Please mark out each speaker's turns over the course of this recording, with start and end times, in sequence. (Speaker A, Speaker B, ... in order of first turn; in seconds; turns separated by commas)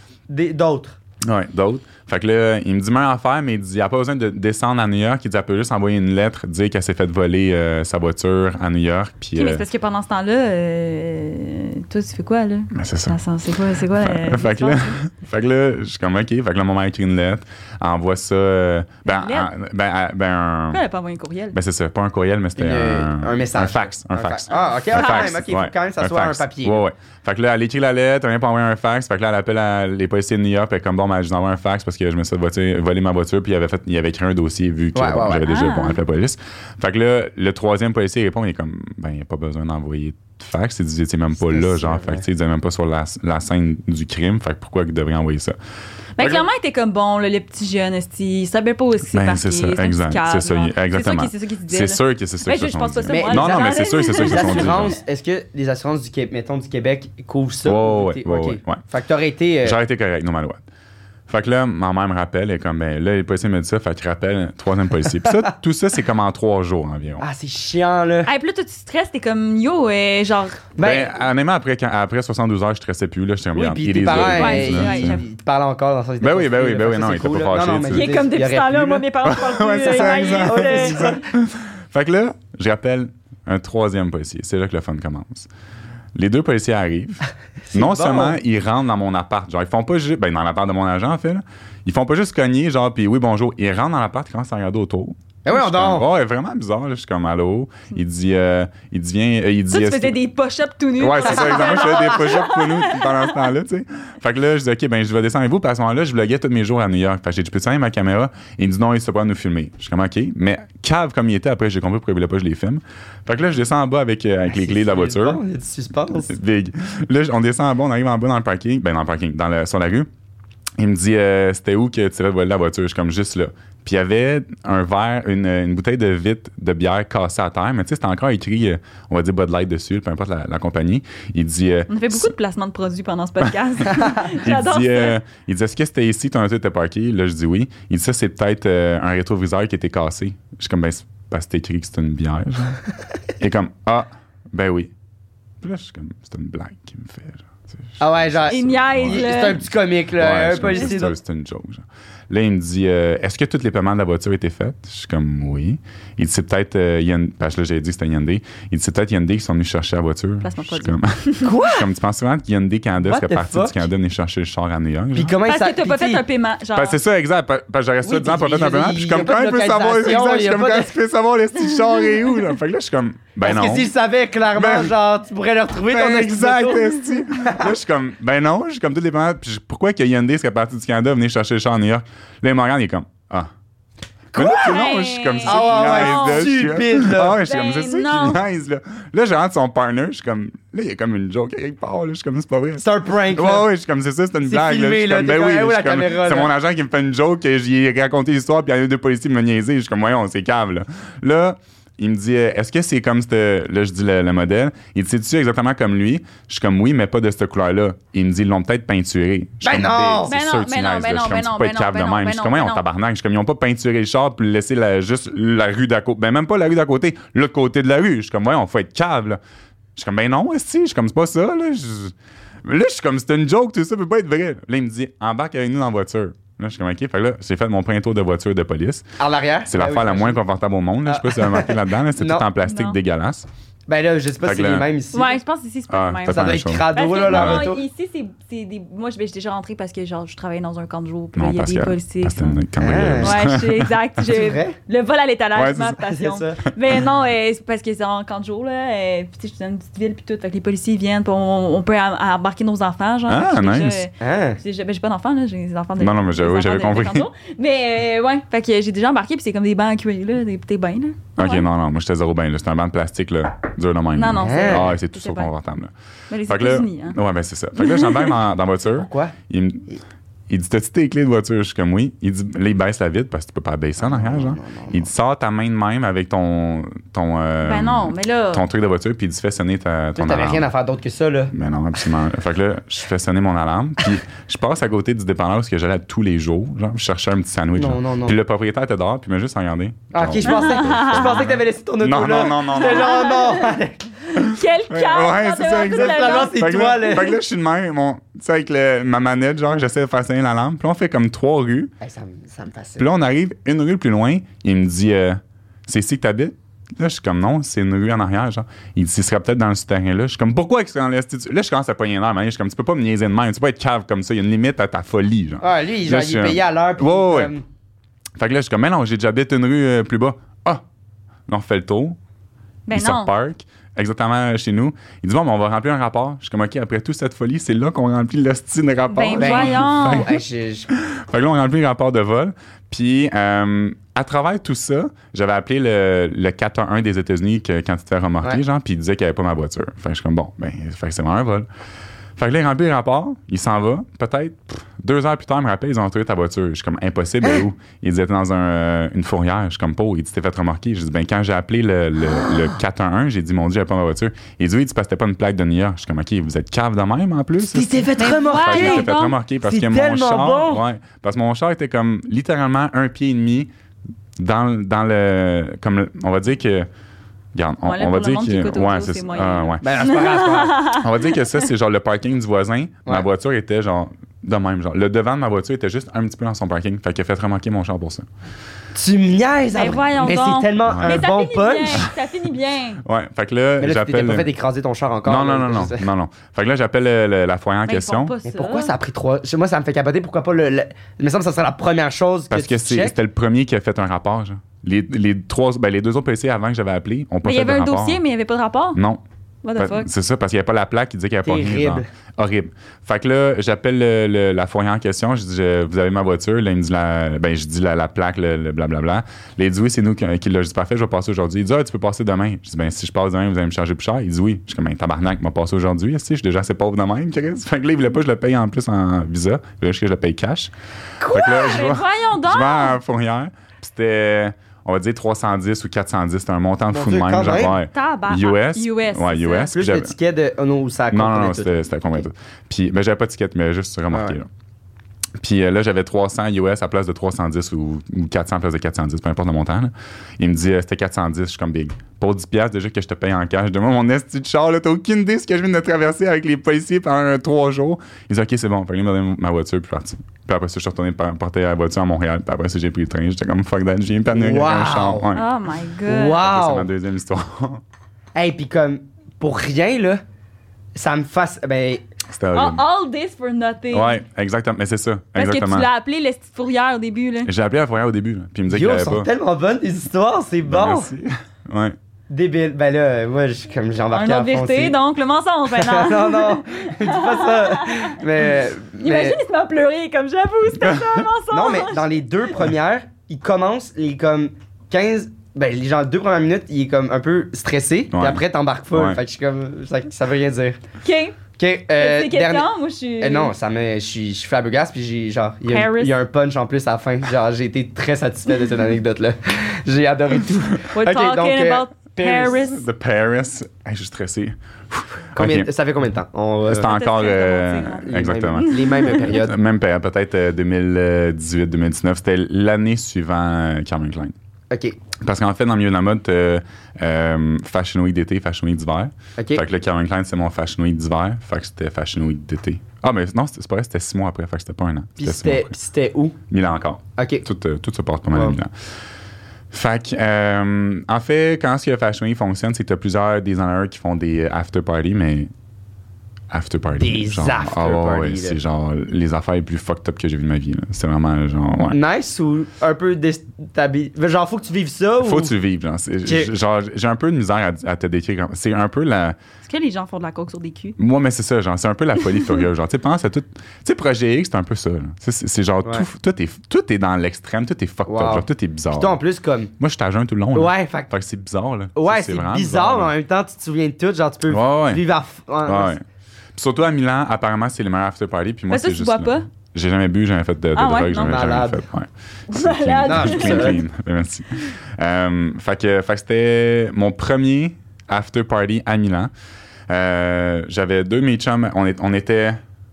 Speaker A: 0.3-1.0, Speaker B: 1.2-9.6, Speaker C: 9.3-14.9, Speaker B: 12.7-13.2, Speaker B: 13.9-20.8, Speaker C: 19.0-19.5, Speaker C: 20.7-21.5, Speaker B: 21.5-45.5, Speaker A: 22.6-26.8, Speaker C: 24.5-25.4, Speaker A: 34.9-35.4, Speaker C: 35.4-36.0, Speaker A: 41.4-42.2, Speaker C: 46.2-54.9, Speaker B: 49.1-55.0, Speaker A: 53.1-59.8, Speaker B: 57.6-58.8, Speaker B: 59.6-60.6, Speaker B: 61.3-67.2, Speaker A: 67.2-68.3, Speaker C: 68.2-70.6, Speaker A: 70.8-71.2, Speaker B: 70.8-75.2, Speaker A: 73.5-79.0, Speaker C: 74.1-75.2, Speaker B: 76.2-78.1, Speaker C: 77.9-81.0, Speaker B: 79.2-85.5, Speaker A: 79.8-81.2, Speaker B: 86.1-100.2, Speaker A: 87.7-88.4, Speaker A: 95.4-96.1, Speaker C: 99.7-103.5, Speaker B: 101.0-115.4, Speaker A: 101.5-102.0, Speaker A: 114.5-116.3, Speaker B: 116.3-120.1, Speaker B: 120.8-132.3, Speaker C: 131.9-135.2, Speaker B: 133.9-142.8, Speaker B: 143.4-144.9, Speaker B: 145.6-149.5, Speaker A: 148.0-151.2, Speaker C: 148.5-149.6, Speaker B: 150.1-165.4, Speaker C: 150.7-150.9, Speaker C: 160.4-161.5, Speaker A: 163.0-163.9, Speaker A: 165.1-166.2, Speaker C: 165.4-167.0, Speaker B: 166.7-173.9, Speaker A: 168.0-170.9, Speaker A: 173.4-177.7, Speaker B: 174.5-174.9, Speaker B: 175.8-183.5, Speaker B: 184.3-219.4, Speaker A: 184.3-184.8, Speaker C: 184.4-186.5, Speaker A: 185.4-187.4, Speaker C: 187.4-188.4, Speaker A: 192.8-193.7, Speaker A: 194.4-196.5, Speaker A: 209.6-210.3, Speaker C: 210.2-212.8, Speaker B: 219.9-222.1, Speaker B: 222.6-229.1, Speaker A: 229.2-230.4, Speaker B: 229.7-233.4, Speaker A: 231.1-232.5, Speaker C: 232.6-233.0, Speaker A: 233.9-235.4, Speaker B: 234.4-234.9, Speaker C: 235.1-242.6, Speaker B: 235.9-237.7, Speaker A: 236.3-237.8, Speaker B: 241.3-243.9, Speaker A: 242.8-243.5, Speaker C: 243.2-261.7, Speaker A: 244.2-244.8, Speaker B: 245.5-246.0, Speaker A: 246.0-246.6, Speaker B: 253.3-254.0, Speaker A: 254.2-254.6, Speaker B: 256.0-257.3, Speaker B: 261.4-265.9, Speaker C: 264.1-265.5, Speaker A: 264.3-265.0, Speaker C: 266.3-267.2, Speaker B: 266.5-270.0, Speaker C: 267.8-268.3, Speaker A: 268.9-269.4, Speaker B: 270.5-280.7, Speaker A: 274.0-275.1, Speaker C: 277.6-278.6, Speaker A: 280.1-281.5, Speaker B: 281.5-293.3, Speaker A: 287.8-288.4, Speaker A: 290.1-294.1, Speaker C: 290.4-291.4, Speaker C: 292.7-293.7, Speaker B: 294.3-301.9, Speaker C: 294.3-296.6, Speaker A: 295.9-297.4, Speaker A: 302.0-303.1, Speaker B: 303.0-317.5, Speaker A: 315.6-317.6, Speaker B: 318.4-320.8, Speaker B: 321.5-322.2, Speaker C: 322.9-323.3, Speaker B: 322.9-330.4, Speaker C: 329.1-330.3, Speaker A: 329.4-330.9, Speaker B: 330.9-341.7, Speaker B: 342.4-363.7, Speaker A: 357.6-360.8, Speaker C: 358.2-359.4, Speaker B: 364.4-366.9, Speaker B: 367.5-370.0, Speaker C: 367.8-371.1, Speaker A: 369.8-370.9, Speaker B: 370.9-378.2, Speaker A: 378.9-382.1, Speaker C: 379.7-383.0, Speaker B: 380.8-381.2, Speaker B: 383.0-384.5, Speaker A: 383.8-386.1, Speaker B: 385.2-388.3, Speaker C: 387.9-388.9, Speaker A: 388.4-393.1, Speaker B: 392.5-398.2, Speaker C: 397.4-399.0, Speaker B: 398.9-399.2, Speaker C: 399.6-400.1, Speaker B: 399.8-420.7, Speaker A: 401.4-402.1, Speaker C: 421.2-423.0, Speaker B: 421.2-430.1, Speaker A: 426.9-427.8, Speaker C: 427.7-429.7, Speaker A: 429.7-431.7, Speaker B: 431.1-434.5, Speaker A: 434.1-434.4, Speaker B: 435.4-455.5, Speaker A: 454.3-455.3, Speaker C: 455.3-456.4, Speaker A: 456.1-456.9, Speaker B: 456.3-457.8, Speaker A: 458.3-460.2, Speaker A: 460.9-462.0, Speaker B: 462.3-462.8, Speaker C: 462.5-464.2, Speaker B: 463.9-465.9, Speaker C: 465.3-467.5, Speaker B: 467.4-469.3, Speaker A: 468.7-471.1, Speaker B: 470.6-471.9, Speaker A: 472.3-475.0, Speaker C: 474.1-478.2, Speaker A: 475.7-479.4, Speaker C: 479.0-482.2, Speaker A: 481.5-490.8, Speaker B: 488.1-488.4, Speaker B: 488.9-489.2, Speaker C: 491.0-491.4, Speaker A: 491.6-502.6, Speaker C: 491.9-493.5, Speaker C: 495.7-496.2, Speaker C: 500.9-502.8, Speaker B: 502.6-505.7, Speaker A: 505.4-506.9, Speaker B: 506.6-514.3, Speaker C: 506.7-509.2, Speaker A: 508.1-509.6, Speaker A: 514.7-515.0, Speaker B: 515.2-525.7, Speaker A: 519.4-519.6, Speaker A: 525.2-526.4, Speaker B: 526.5-528.7, Speaker A: 527.2-527.4, Speaker A: 528.3-528.6, Speaker B: 529.7-535.5, Speaker B: 536.5-542.0, Speaker A: 537.0-538.6, Speaker A: 541.9-545.5, Speaker B: 545.2-549.4, Speaker A: 546.2-546.5, Speaker C: 549.6-551.0, Speaker B: 551.0-559.2, Speaker A: 558.0-559.7, Speaker B: 559.8-563.1, Speaker A: 560.5-561.1, Speaker A: 562.0-565.9, Speaker B: 564.5-565.0, Speaker B: 565.6-566.0, Speaker B: 566.5-579.3, Speaker C: 568.7-569.4, Speaker C: 570.7-571.5, Speaker A: 571.2-571.9, Speaker C: 572.5-573.8, Speaker A: 573.0-573.8, Speaker B: 579.9-582.6